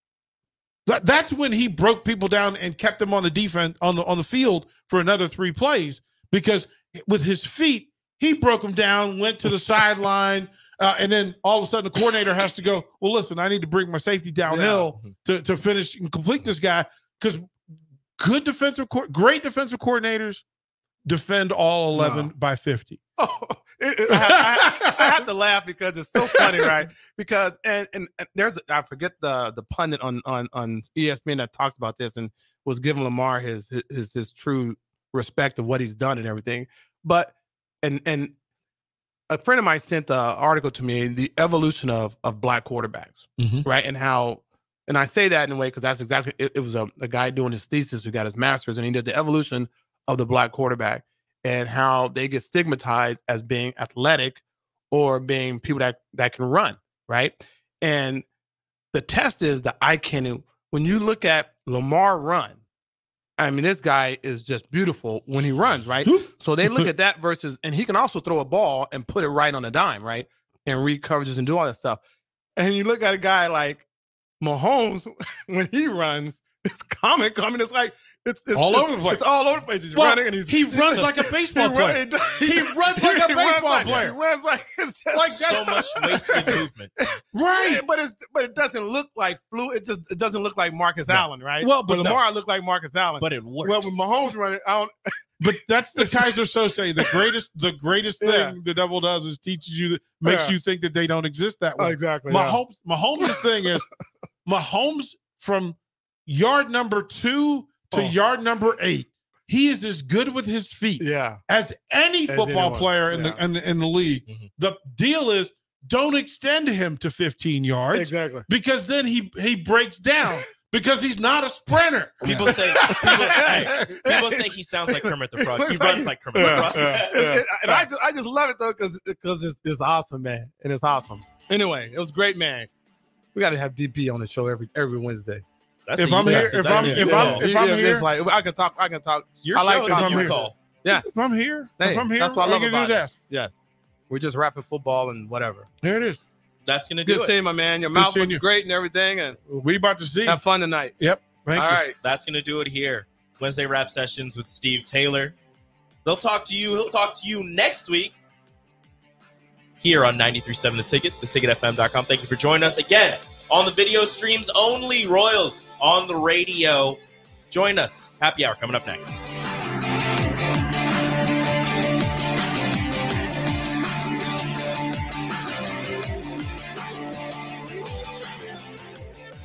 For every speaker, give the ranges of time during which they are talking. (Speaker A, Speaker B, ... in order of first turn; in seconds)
Speaker A: 0.9-17.5, 18.2-20.4, 21.1-23.0, 24.1-25.1, 26.3-26.8, 43.4-43.7, 66.1-66.9, 78.5-79.2, 79.9-84.2, 85.1-86.6, 87.3-87.8, 91.6-92.2, 95.4-103.8, 104.5-124.0, 126.3-127.9, 136.0-138.1, 139.8-143.2, 145.8-146.2, 147.9-148.4, 149.5-150.4, 151.0-151.8
Speaker B: 14.5-14.9, 21.9-22.3, 23.2-38.3, 39.3-54.4, 54.9-58.2, 58.9-62.6, 63.4-72.0, 72.6-73.8, 74.4-94.9, 96.0-96.3, 97.0-97.3, 98.2-98.6, 100.2-100.5, 101.8-102.6, 111.0-111.4, 112.3-113.4, 117.9-118.5, 122.3-132.7, 133.3-135.4, 136.2-141.1, 141.8-143.6, 144.1-145.7, 147.1-149.4, 150.3-151.0, 151.5-152.0
Speaker C: 85.4-86.9, 93.2-94.1, 122.2-127.2, 135.9-137.5, 139.4-140.6, 146.7-147.3, 152.0-155.4, 156.1-158.2, 159.8-167.0, 167.5-169.2